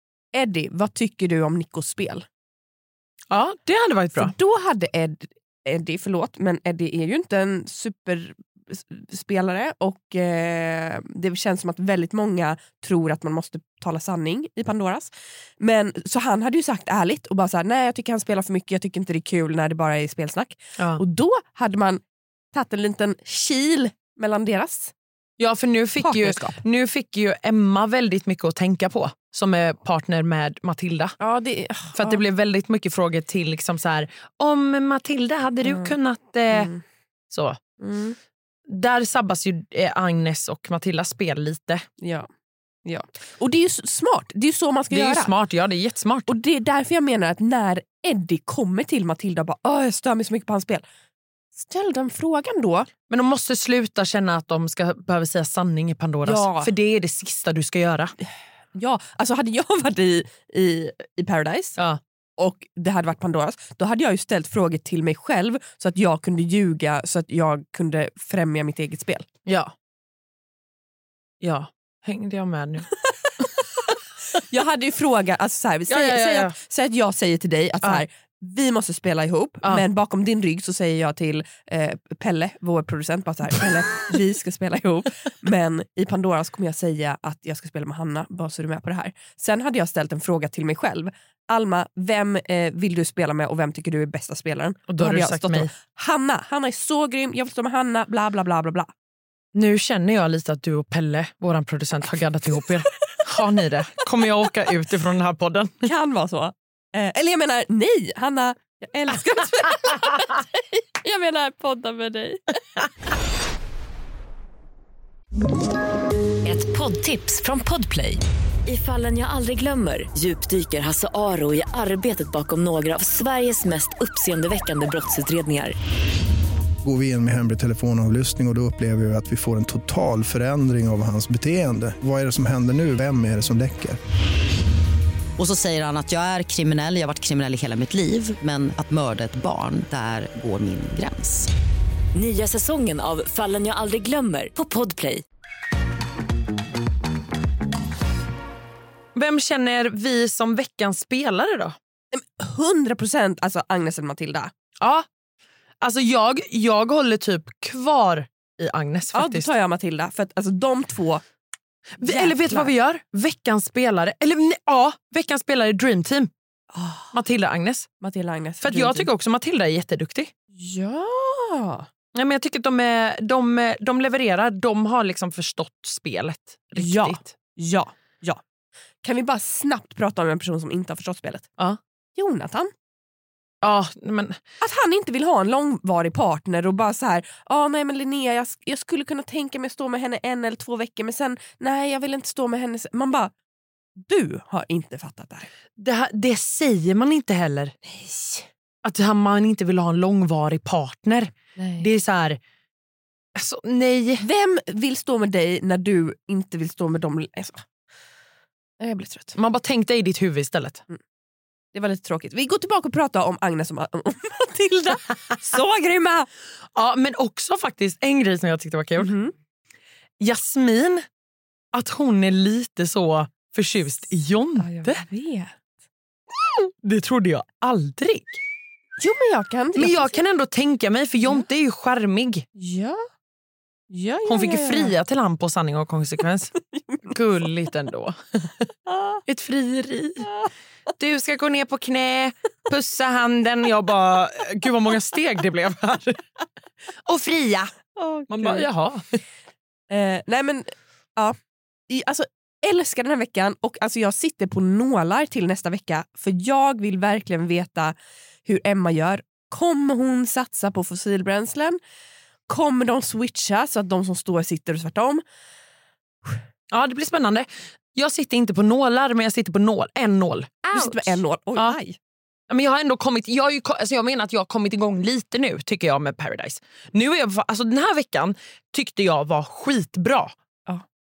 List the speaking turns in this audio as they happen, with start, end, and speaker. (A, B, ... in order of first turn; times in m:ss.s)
0:00.3-0:02.2 A
0:03.3-0:04.3 B
0:04.1-0:22.0 A
0:22.5-0:24.9 A
0:25.4-0:31.1 B
0:26.0-0:26.6 A
0:31.2-0:32.2 A
0:31.9-0:36.7 B
0:35.6-0:35.9 A
0:36.5-0:36.8 A
0:37.3-0:37.6 B
0:37.8-0:38.2 A
0:38.7-0:41.8 B
0:42.0-0:42.3 A
0:42.8-0:45.3 A
0:44.9-0:46.3 B
0:46.3-0:50.8 A
0:51.6-0:52.9 A
0:53.1-0:58.1 B
0:56.2-0:56.7 A
0:58.7-1:01.8 A
1:02.4-1:09.3 A
1:09.4-1:09.7 B
1:11.4-1:13.4 B
1:14.4-1:38.9 A
1:15.9-1:16.6 B
1:34.9-1:35.7 B
1:39.5-1:45.8 B
1:45.8-1:52.5 A
1:56.4-2:05.7 C
2:06.8-2:14.0 D
2:15.4-2:21.5 E
2:22.1-2:25.2 C
2:29.1-2:31.8 B
2:32.1-2:34.5 A
2:34.8-2:35.0 B
2:35.8-2:39.5 B
2:39.1-2:41.2 A
2:42.0-2:46.3 B
2:42.0-2:42.7 A
2:46.7-2:47.1 A
2:47.1-2:47.9 B
2:48.0-2:49.1 A
2:48.6-2:50.3 B
2:50.5-2:51.8 A
2:52.1-2:57.2 B
2:56.8-2:58.4 A
2:59.0-3:01.5 A
3:02.2-3:02.7 A
3:03.6-3:04.4 B
3:04.6-3:13.3 A
3:14.0-3:15.5 A
3:15.8-3:17.7 B
3:17.8-3:18.5 A
3:18.8-3:22.4 B
3:21.6-3:21.9 A
3:23.4-3:24.2 B
3:24.2-3:27.6 A
3:28.8-3:29.4 A
3:29.3-3:30.8 B
3:31.7-3:36.3 A
3:36.7-3:39.1 B
3:39.0-3:39.3 A
3:40.2-3:41.0 B
3:41.7-3:45.0 B
3:44.6-3:45.5 A
3:46.8-3:48.4 B
3:49.0-3:50.2 A
3:49.8-3:52.4 B
3:52.6-3:53.0 A
3:53.9-3:55.0 A
3:54.3-3:56.5 B
3:56.7-3:57.1 A
3:57.0-3:58.2 B
3:59.3-4:00.4 B
4:01.0-4:06.2 B
4:07.0-4:07.7 B
4:08.0-4:08.7 A
4:08.3-4:09.0 B
4:09.9-4:11.3 A
4:11.9-4:17.9 A
4:18.4-4:21.8 A
4:22.5-4:25.2 A
4:26.7-4:31.8 B
4:30.6-4:32.0 A
4:32.5-4:40.3 B